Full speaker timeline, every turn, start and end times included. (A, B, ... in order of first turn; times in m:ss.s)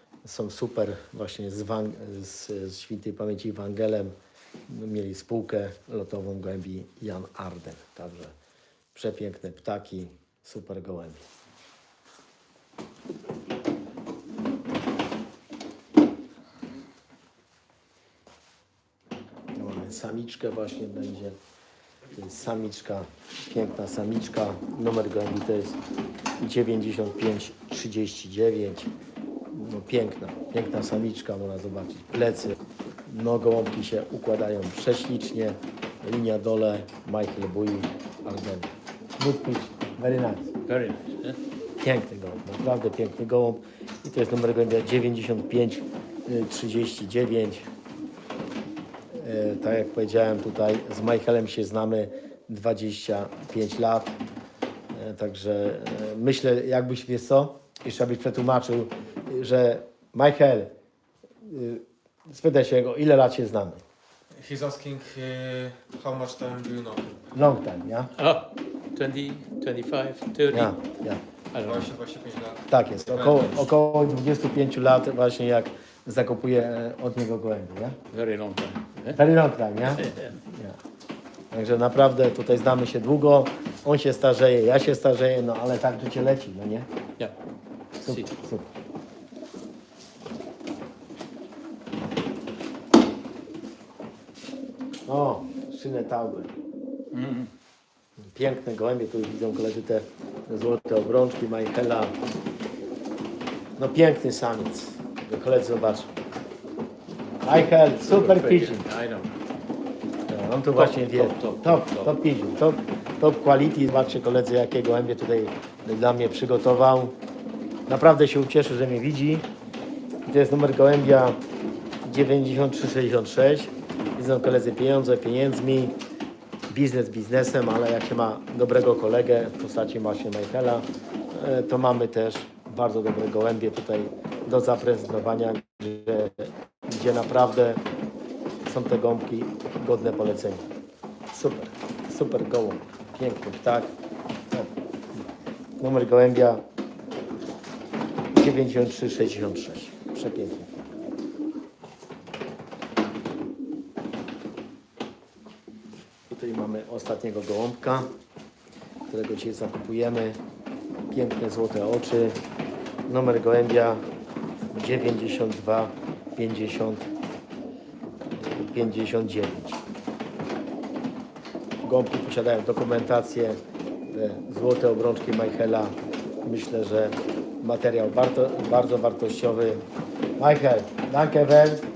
0:00.2-0:04.1 A
0:04.7-0:08.3 A
0:08.9-0:11.2 A
0:19.5-0:21.4 A
0:22.1-0:25.8 A
0:26.4-0:28.9 A
0:29.5-0:40.6 A
0:40.6-0:41.4 B
0:41.8-0:47.7 A
0:49.1-0:54.2 A
0:54.9-1:00.7 A
1:01.4-1:03.8 A
1:04.3-1:07.2 C
1:07.3-1:08.1 A
1:08.1-1:10.7 B
1:10.5-1:11.2 A
1:11.5-1:12.0 B
1:11.8-1:13.5 C
1:12.7-1:18.0 A
1:18.1-1:19.2 B
1:19.1-1:20.8 A
1:19.9-1:20.3 B
1:21.5-1:26.9 A
1:28.0-1:28.3 B
1:28.0-1:28.7 A
1:35.0-1:36.5 A
1:37.1-1:37.5 B
1:38.2-1:42.2 A
1:43.8-1:46.1 A
1:47.4-1:48.8 A
1:47.5-1:49.3 B
1:50.3-1:57.2 A
1:50.7-1:52.1 B
1:57.9-1:59.5 A
2:00.2-2:01.4 A
2:02.0-2:06.0 A
2:06.7-2:17.8 A
2:18.6-2:20.6 A
2:21.3-2:23.9 A
2:25.8-2:26.6 A
2:28.3-2:30.9 A
2:36.3-2:38.1 A
2:39.1-2:40.4 A
2:41.1-2:42.4 A
2:43.1-2:44.0 A
2:44.7-2:47.1 A
2:48.3-2:49.8 A
2:51.8-2:59.8 A
3:00.4-3:01.8 A